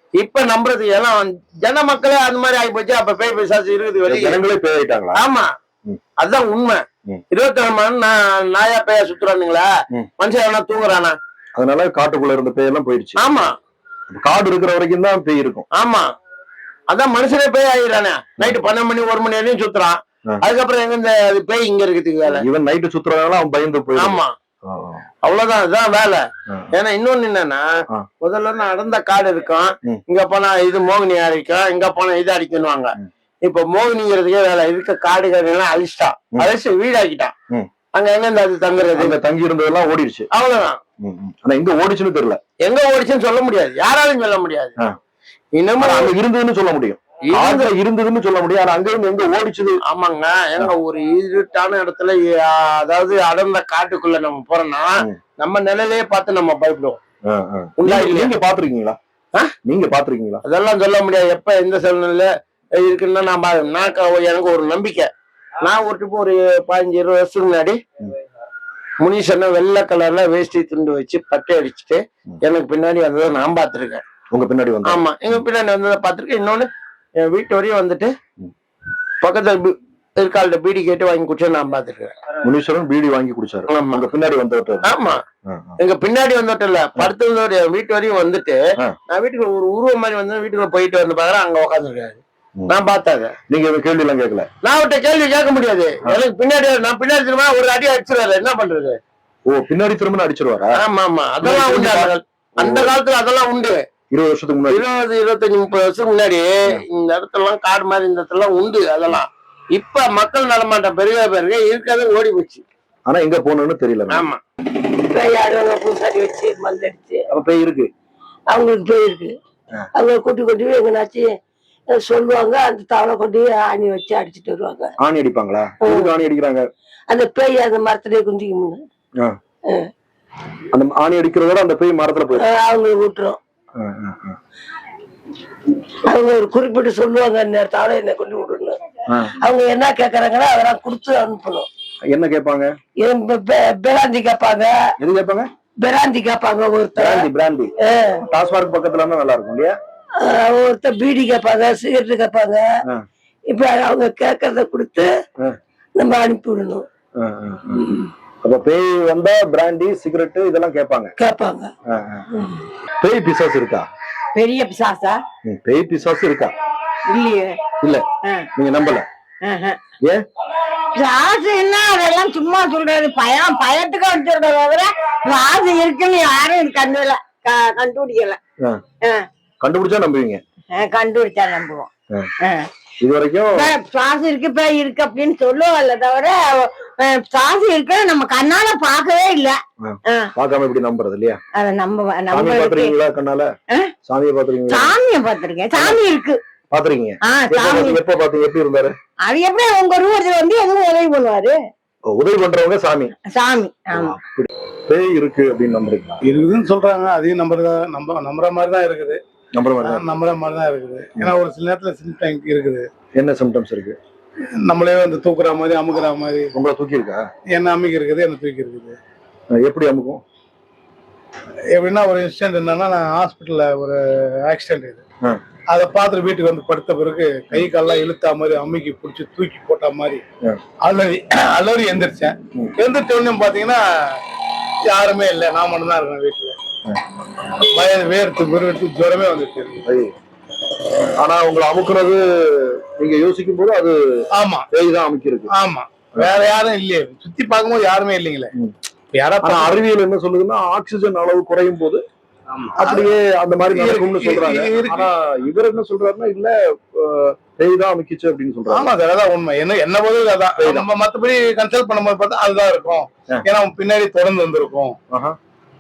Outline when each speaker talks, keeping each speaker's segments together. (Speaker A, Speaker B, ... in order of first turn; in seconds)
Speaker A: 0.2-4.4, 5.1-5.5, 6.2-9.7, 10.2-11.2, 13.2-13.5, 15.8-16.1, 16.9-22.4, 24.0-24.3, 25.2-26.2, 26.8-27.6, 28.2-37.3, 37.9-39.2, 40.3-40.8, 42.6-44.7, 45.6-46.2, 47.3-47.7, 49.9-57.0, 57.8-58.3, 60.5-65.1, 65.6-67.8, 69.0-74.0, 74.9-78.1, 79.2-82.2, 83.7-84.1, 84.8-85.2, 85.8-93.3, 94.6-99.0, 100.8-103.8, 104.7-112.6, 114.1-114.4
Speaker B: 4.1-5.2, 11.6-13.2, 14.1-15.7, 18.4-18.7, 22.3-25.0, 39.0-40.3, 41.0-42.4, 45.8-49.8, 57.3-59.0, 59.6-60.4, 74.3-75.4, 82.4-84.9, 85.5-85.8, 93.5-94.5, 99.5-100.8, 101.4-103.0, 104.1-104.8, 113.1-114.3, 117.3-117.9, 125.0-126.6, 130.7-132.4, 133.8-134.4, 142.1-142.8, 145.0-145.5, 147.0-147.7, 148.2-149.8, 157.2-157.8, 158.4-161.2, 161.9-162.2, 163.0-163.9, 165.5-166.5, 167.8-168.1, 168.6-169.1, 179.6-180.4, 183.0-183.7, 189.8-191.4, 192.3-193.5, 194.1-194.9, 195.8-196.0, 196.7-198.9, 202.1-203.1, 203.9-206.2, 209.6-210.0, 213.2-214.0, 216.6-217.2, 219.5-220.2, 239.9-240.2, 241.2-245.5, 249.4-252.0, 252.8-258.9, 260.6-260.9, 265.1-265.4
Speaker C: 115.1-117.2, 118.5-119.3, 120.0-121.3, 121.9-124.9, 125.8-126.1, 127.1-128.8, 132.3-133.4, 136.1-138.8, 139.4-141.7, 143.0-144.8, 145.8-147.3, 147.8-148.2, 150.2-152.7, 153.5-155.1, 156.0-156.8, 157.8-158.0, 161.2-161.7
Speaker D: 164.3-165.2, 167.1-167.6, 168.2-168.5, 169.4-169.8, 170.9-178.4, 180.7-181.9, 183.6-190.3, 191.5-193.0, 194.7-196.4, 197.3-198.0, 199.2-201.6, 203.3-204.2
Speaker E: 206.3-209.2, 210.0-212.8, 214.7-216.5, 217.6-219.0, 221.8-224.0, 224.5-225.0, 225.7-230.2, 230.9-233.8, 234.9-236.5, 237.8-239.8, 246.5-248.5, 249.2-249.6, 253.8-254.9, 258.8-264.9